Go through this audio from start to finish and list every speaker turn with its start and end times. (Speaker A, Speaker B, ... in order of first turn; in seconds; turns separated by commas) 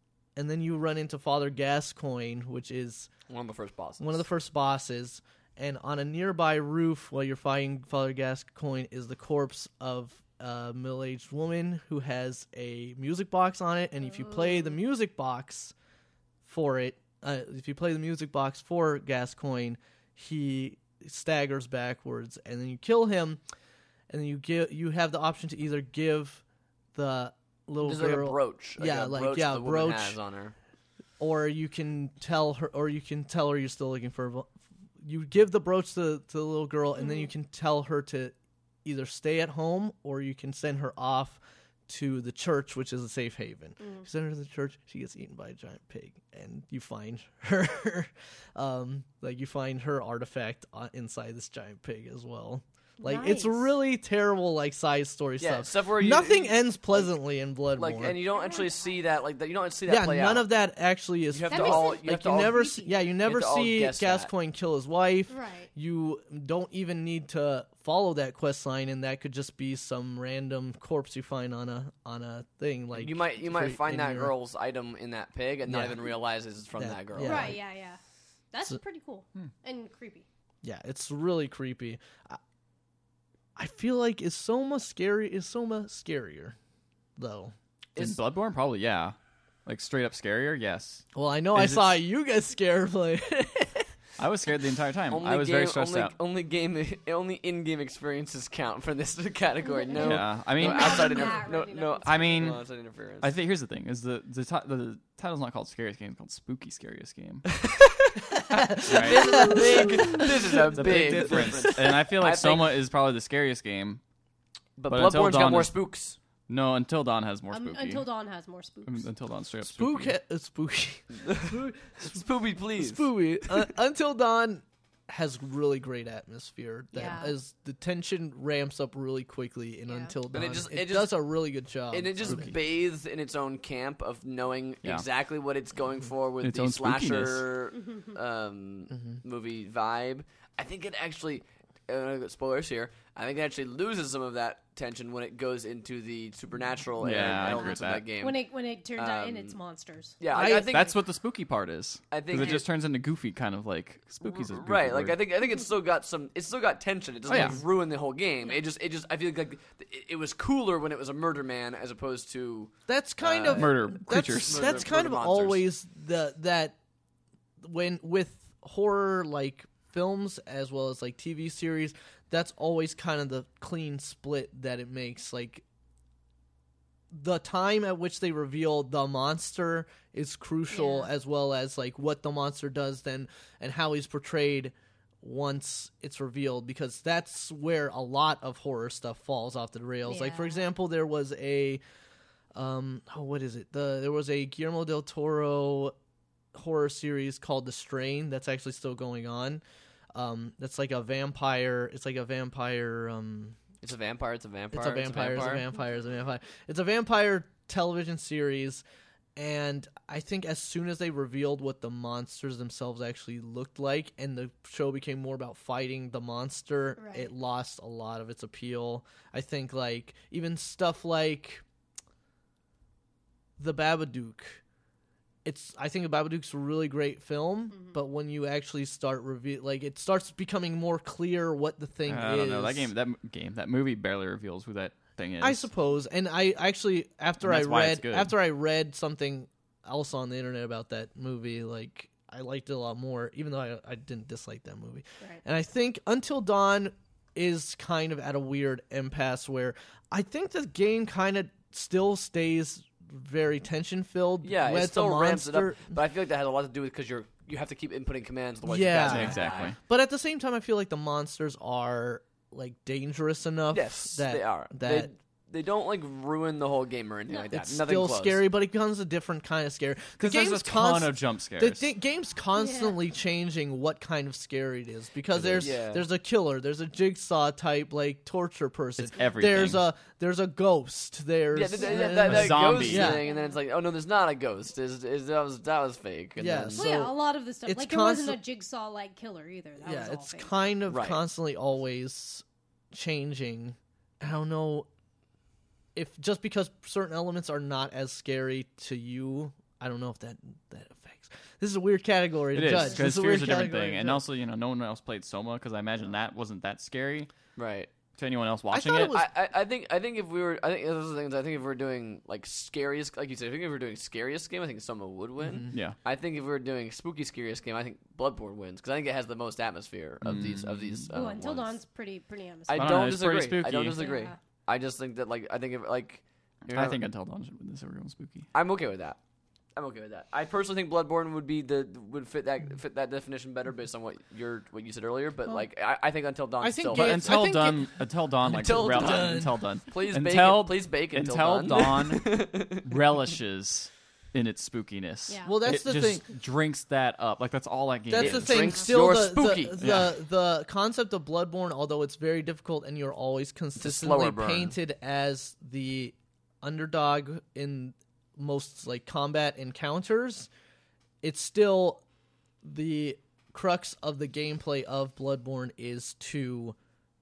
Speaker A: 0.3-3.1, Speaker B: 3.3-4.2, Speaker A: 4.0-15.7, Speaker A: 16.4-23.4, Speaker A: 24.1-26.4, Speaker A: 26.9-30.2, Speaker B: 27.8-30.5, Speaker A: 31.2-38.3, Speaker A: 38.8-58.2, Speaker C: 43.8-44.0, Speaker C: 53.0-53.6, Speaker B: 55.4-57.1, Speaker B: 57.7-60.5, Speaker C: 58.3-59.0, Speaker A: 59.9-74.3, Speaker B: 61.3-64.3, Speaker C: 61.5-63.0, Speaker C: 65.3-65.7, Speaker B: 72.9-77.5, Speaker A: 75.7-76.1, Speaker A: 76.8-77.6, Speaker C: 77.2-78.0, Speaker C: 78.5-80.2, Speaker A: 80.6-82.4, Speaker A: 83.5-86.5, Speaker A: 87.2-87.5, Speaker D: 88.0-89.1, Speaker D: 89.7-92.0, Speaker A: 91.1-93.9, Speaker D: 94.2-96.1, Speaker B: 95.1-103.3, Speaker C: 99.6-102.5, Speaker D: 99.9-101.4, Speaker D: 102.0-102.6, Speaker D: 103.2-107.5, Speaker B: 107.5-112.8, Speaker A: 108.4-111.6, Speaker D: 108.8-114.0, Speaker B: 114.8-116.2, Speaker D: 114.9-115.7, Speaker D: 116.5-118.0, Speaker C: 117.5-119.0, Speaker D: 118.8-120.1, Speaker A: 119.6-122.2, Speaker B: 121.2-123.7, Speaker A: 122.8-132.5, Speaker C: 126.9-127.3, Speaker C: 129.9-130.1, Speaker B: 130.3-131.2, Speaker B: 131.9-148.4, Speaker D: 136.4-137.5, Speaker A: 138.9-139.2, Speaker D: 147.0-148.0, Speaker C: 147.6-150.2, Speaker B: 149.0-149.6, Speaker B: 150.2-150.9, Speaker A: 150.3-150.7, Speaker D: 150.3-155.2, Speaker B: 152.1-152.7, Speaker B: 154.2-163.8, Speaker D: 157.3-157.6, Speaker A: 157.3-157.6, Speaker A: 162.9-166.8, Speaker D: 163.4-164.8, Speaker B: 164.3-165.6, Speaker A: 167.6-175.6, Speaker A: 177.1-191.8, Speaker C: 180.7-181.1, Speaker C: 190.1-190.6, Speaker A: 192.5-195.9, Speaker A: 196.5-199.6, Speaker A: 200.1-203.6, Speaker B: 203.8-205.7, Speaker A: 204.7-208.8, Speaker A: 209.3-221.6, Speaker C: 217.0-217.3, Speaker A: 223.6-224.6, Speaker A: 225.4-232.9, Speaker D: 232.1-235.7, Speaker A: 235.4-255.9, Speaker D: 237.4-238.3, Speaker B: 254.4-259.7, Speaker A: 258.6-265.1, Speaker D: 259.0-259.8, Speaker B: 263.7-268.4, Speaker A: 267.5-283.2, Speaker D: 270.2-271.9, Speaker C: 272.6-273.0, Speaker B: 275.3-276.0, Speaker D: 279.0-279.8, Speaker B: 281.5-286.9, Speaker D: 282.1-283.2, Speaker C: 283.2-283.6, Speaker A: 286.4-288.4, Speaker C: 286.7-290.5, Speaker A: 289.8-294.9, Speaker B: 290.9-291.2, Speaker A: 295.9-304.2, Speaker D: 302.5-307.3, Speaker B: 307.6-307.9, Speaker D: 308.2-309.1, Speaker A: 308.7-309.3, Speaker B: 309.1-321.8, Speaker A: 315.4-315.7, Speaker D: 315.7-316.0, Speaker D: 320.2-321.1, Speaker C: 321.1-322.9, Speaker B: 322.7-327.0, Speaker D: 322.7-324.0, Speaker C: 323.9-324.4, Speaker D: 326.7-328.5, Speaker B: 328.5-329.2, Speaker B: 329.7-337.4, Speaker A: 336.6-339.6, Speaker D: 336.9-348.7, Speaker B: 338.5-343.0, Speaker C: 345.3-345.6, Speaker A: 345.4-346.2, Speaker A: 348.1-360.5, Speaker B: 348.2-349.8, Speaker D: 349.8-350.1, Speaker B: 353.8-354.7, Speaker A: 361.2-362.0, Speaker A: 362.6-366.8